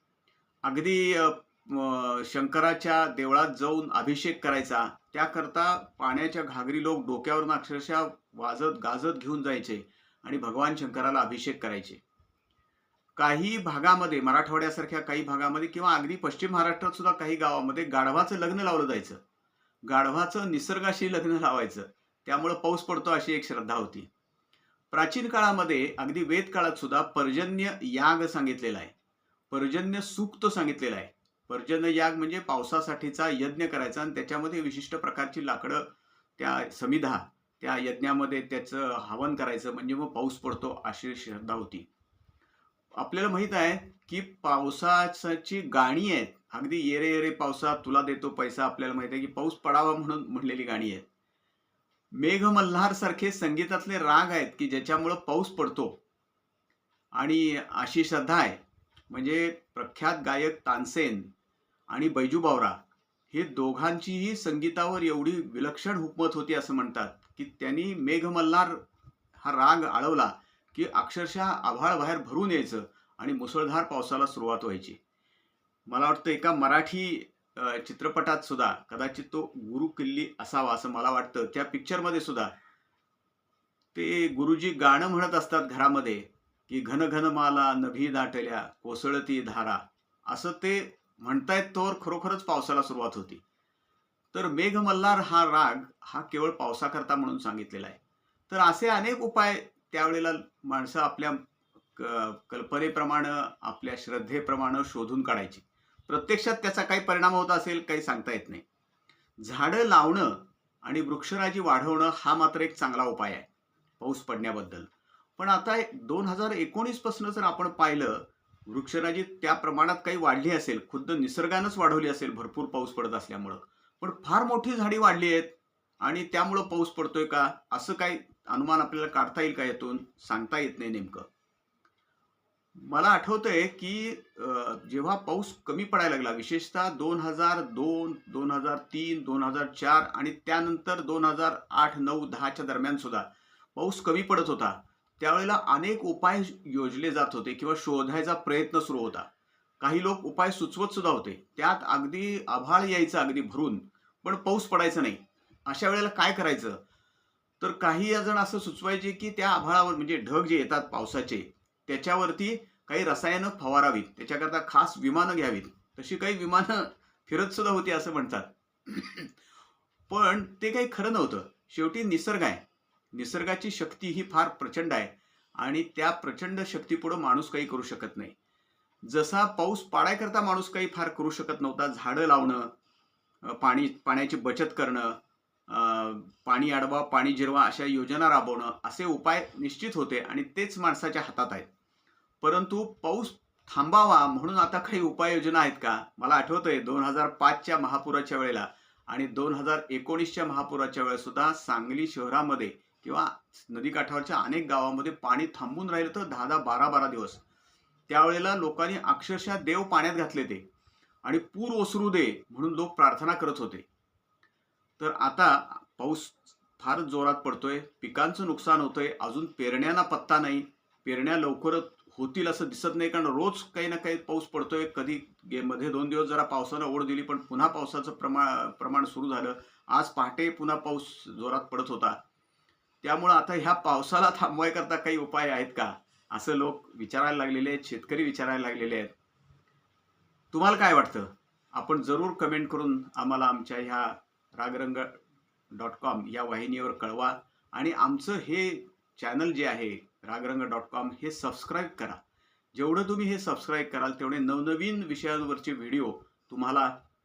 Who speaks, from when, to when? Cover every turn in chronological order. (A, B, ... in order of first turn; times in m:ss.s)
0:00.6-0:12.0 A
0:13.2-0:19.2 A
0:19.8-0:24.1 A
0:24.9-0:28.9 A
0:29.5-0:41.9 A
0:43.0-0:51.0 A
0:52.1-0:56.0 A
0:57.1-0:58.6 A
0:59.1-1:01.3 A
1:01.9-1:02.8 A
1:03.3-1:08.8 A
1:09.4-1:15.0 A
1:15.9-1:22.5 A
1:23.9-1:33.4 A
1:34.3-1:41.4 A
1:42.0-1:48.6 A
1:49.4-1:53.5 A
1:54.0-2:11.3 A
2:12.8-2:29.3 A
2:29.8-2:36.8 A
2:37.6-2:49.3 A
2:50.1-2:58.3 A
2:59.0-3:02.7 A
3:03.4-3:11.7 A
3:12.4-3:27.4 A
3:28.1-3:30.6 A
3:31.2-3:33.8 A
3:35.0-3:52.2 A
3:53.0-3:59.1 A
4:00.5-4:05.2 A
4:05.7-4:12.2 A
4:12.7-4:16.9 A